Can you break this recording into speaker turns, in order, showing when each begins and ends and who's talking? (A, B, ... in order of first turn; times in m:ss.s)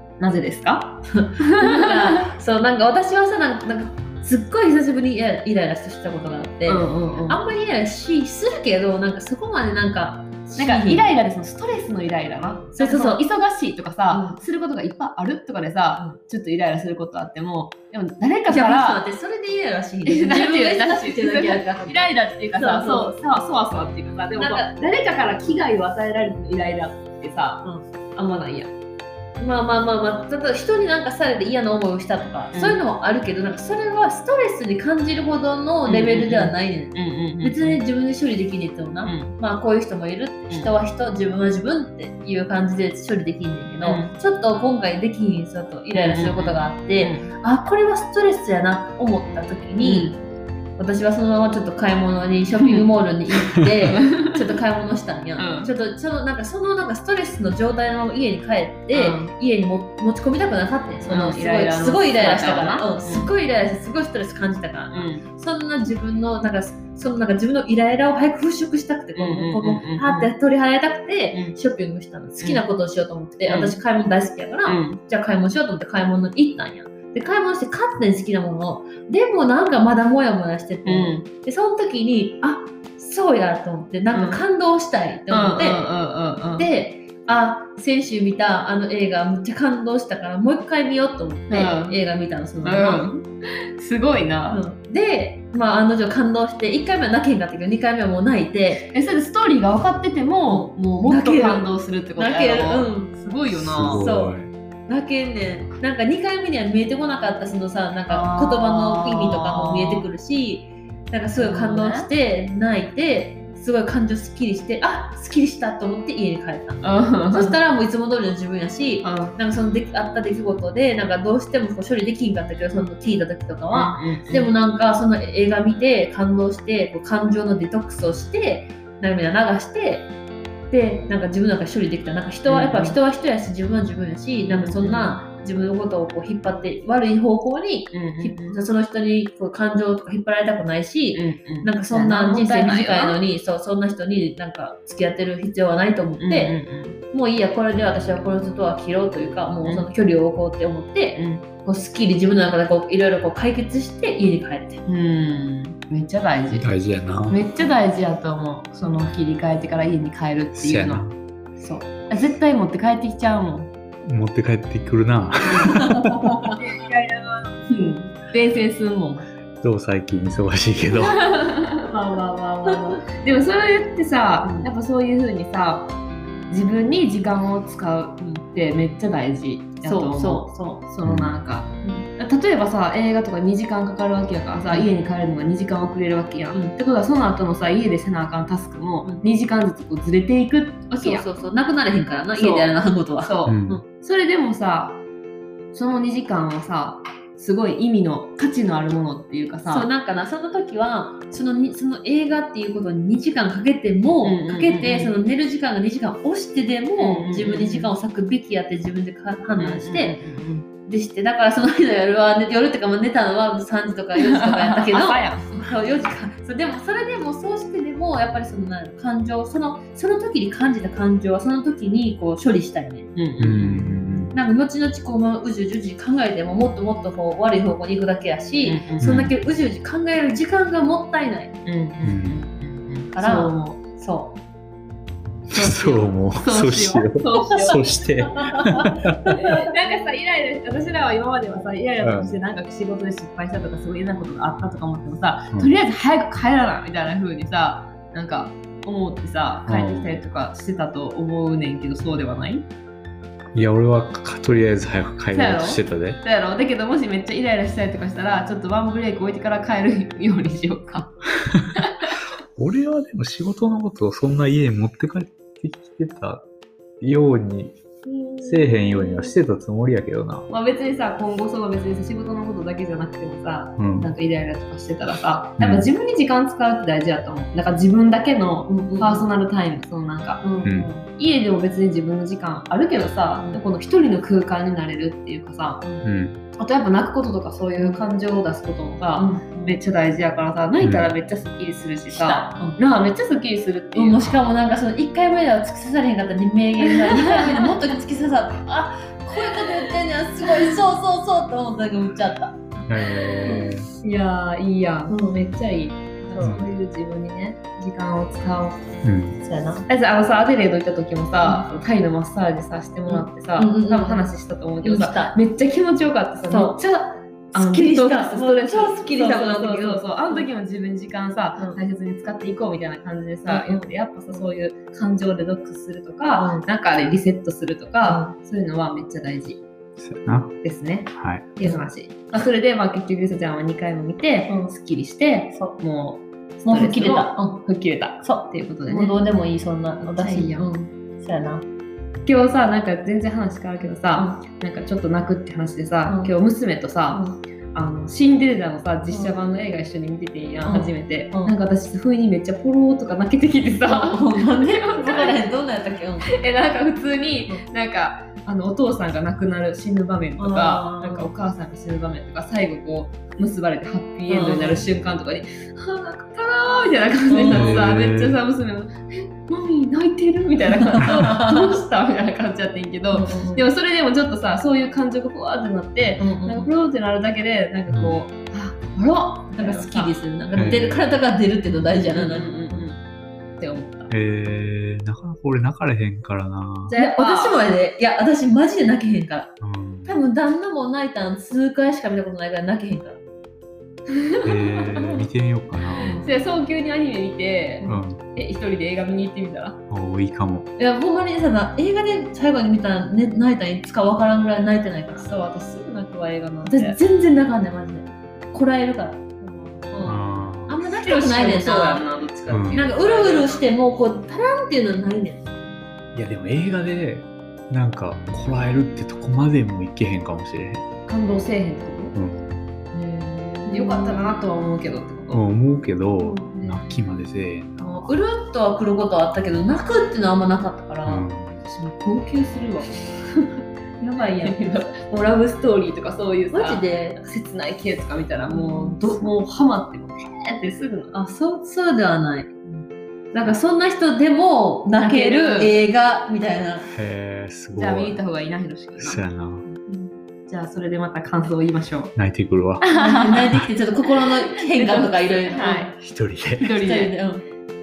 0:00.2-0:01.9 A
0:01.1-0:11.1 B
0:06.7-0:07.4 A
0:10.6-0:19.0 A
0:12.7-0:13.2 B
0:14.1-0:14.4 B
0:18.5-0:23.1 B
0:20.0-0:27.6 A
0:24.4-0:24.7 B
0:28.2-0:28.7 A
0:29.4-0:50.2 B
0:32.5-0:32.8 A
0:35.9-0:37.8 A
0:39.0-0:39.3 A
0:43.8-0:44.2 A
0:45.9-0:47.3 A
0:49.8-0:50.2 A
0:50.8-1:25.9 B
0:52.6-0:52.9 A
0:53.8-0:54.4 A
0:55.4-0:55.7 A
0:58.9-0:59.3 A
1:01.0-1:03.3 A
1:04.9-1:05.2 A
1:09.2-1:10.3 A
1:13.5-1:13.8 A
1:14.7-1:15.0 A
1:20.8-1:21.2 A
1:24.1-1:24.4 A
1:25.3-1:26.7 A
1:26.6-1:33.0 B
1:31.5-1:32.0 A
1:32.6-1:34.6 A
1:34.5-1:38.9 B
1:38.9-1:44.1 A
1:40.5-1:43.1 B
1:43.5-1:44.5 C
1:43.8-2:10.1 B
1:48.1-1:50.1 A
1:51.4-1:52.1 A
1:56.8-1:57.6 A
1:59.0-1:59.4 A
2:03.7-2:04.5 A
2:10.7-2:26.6 B
2:12.5-2:13.0 A
2:14.5-2:15.2 A
2:17.9-2:18.6 A
2:21.1-2:23.2 A
2:26.2-2:27.0 A
2:27.1-2:34.8 B
2:29.6-2:29.9 A
2:31.2-2:31.5 A
2:34.9-2:36.7 A
2:36.5-2:37.4 C
2:37.3-2:41.0 A
2:40.6-2:41.2 C
2:41.6-2:41.9 B
2:41.9-2:43.7 A
2:44.0-2:46.3 C
2:45.6-2:46.5 B
2:46.6-2:49.3 A
2:49.6-2:51.2 C
2:50.9-2:55.9 A
2:54.4-2:54.7 B
2:56.5-3:11.2 A
2:59.8-3:00.8 B
3:01.0-3:01.3 C
3:01.8-3:02.1 B
3:11.0-3:13.8 B
3:12.3-3:12.7 A
3:13.2-3:15.0 A
3:13.5-3:13.8 C
3:15.7-3:19.9 A
3:19.7-3:30.2 B
3:24.2-3:25.2 A
3:27.0-3:27.9 A
3:29.6-3:30.7 A
3:30.9-3:43.1 B
3:34.2-3:35.7 A
3:43.1-3:44.3 A
3:43.4-3:44.3 C
3:44.3-3:51.6 B
3:48.6-3:49.1 A
3:49.0-3:49.3 C
3:51.7-3:53.8 A
3:52.0-3:52.4 C
3:53.1-3:54.4 B
3:55.5-3:59.3 C
3:55.5-3:57.9 A
3:58.7-3:58.9 B
3:59.3-4:12.7 A
4:02.0-4:02.3 C
4:09.7-4:10.1 C
4:13.5-4:16.2 C
4:15.3-4:21.1 A
4:22.6-4:26.5 C
4:27.0-4:27.8 C
4:28.4-4:30.5 C
4:28.8-4:29.3 B
4:30.5-4:40.5 A
4:33.8-4:34.1 C
4:35.6-4:35.9 C
4:38.7-4:39.3 B
4:40.4-4:41.1 B
4:41.2-4:45.8 A
4:46.0-4:46.4 C
4:46.6-4:54.3 A
4:47.8-4:48.0 B
4:49.2-4:49.8 B
4:50.8-4:51.1 C
4:52.1-4:52.8 B
4:54.0-5:02.8 B
4:57.0-4:57.7 A
5:02.9-5:03.9 C
5:03.0-5:09.0 A
5:05.1-5:05.4 B
5:06.3-5:06.6 B
5:09.0-5:09.4 C
5:09.4-5:09.9 B
5:09.9-5:29.6 A
5:13.1-5:14.3 B
5:14.8-5:15.4 B
5:16.5-5:16.8 B
5:17.5-5:20.5 B
5:23.5-5:24.4 B
5:26.3-5:26.6 B
5:28.0-5:28.3 B
5:30.0-5:30.6 C
5:30.6-5:39.2 A
5:31.2-5:31.4 C
5:34.5-5:34.8 B
5:35.5-5:35.8 B
5:36.6-5:37.6 B
5:38.2-5:41.6 B
5:40.0-5:40.7 A
5:42.2-5:55.5 A
5:44.2-5:44.4 B
5:46.1-5:46.4 B
5:47.1-5:47.4 B
5:49.1-5:49.4 B
5:50.6-5:51.6 B
5:53.8-5:56.3 B
5:56.3-6:20.9 A
6:00.4-6:01.3 B
6:04.3-6:04.8 B
6:07.3-6:07.9 B
6:07.5-6:08.4 C
6:10.7-6:11.8 B
6:13.1-6:13.7 B
6:16.2-6:16.7 B
6:17.9-6:18.2 C
6:19.5-6:22.9 B
6:20.6-6:21.0 C
6:22.1-6:23.0 A
6:23.6-6:24.1 A
6:24.1-6:27.0 C
6:26.9-6:27.7 A
6:26.9-6:29.5 B
6:29.6-6:30.2 C
6:30.0-6:33.2 B
6:34.3-6:34.7 A
6:34.4-6:36.2 C
6:36.0-6:36.3 B
6:36.2-6:39.8 A
6:37.8-6:38.2 C
6:39.9-6:40.7 C
6:40.8-6:45.3 B
6:45.2-6:47.0 A
6:46.6-6:52.0 B
6:50.0-6:50.8 C
6:50.9-6:53.7 A
6:52.5-6:52.9 C
6:52.7-6:55.5 B
6:56.1-7:00.8 C
7:01.1-7:02.2 A
7:02.2-7:02.4 C
7:02.9-7:05.4 A
7:03.6-7:04.5 B
7:05.3-7:08.0 C
7:06.2-7:06.9 B
7:07.8-7:11.3 B
7:11.0-7:11.6 C
7:11.7-7:21.1 A
7:14.1-7:14.9 B
7:16.5-7:17.2 B
7:18.5-7:19.3 B
7:21.1-7:22.6 B
7:23.3-7:26.9 B
7:25.0-7:25.8 A
7:26.9-7:28.2 C
7:27.7-7:29.2 A
7:29.0-7:29.6 C
7:30.5-7:32.2 A
7:32.2-7:32.8 C
7:32.8-7:33.6 A
7:32.9-7:35.9 B
7:34.6-7:36.0 A
7:36.0-7:36.7 C
7:36.6-7:37.2 A
7:36.8-7:37.4 B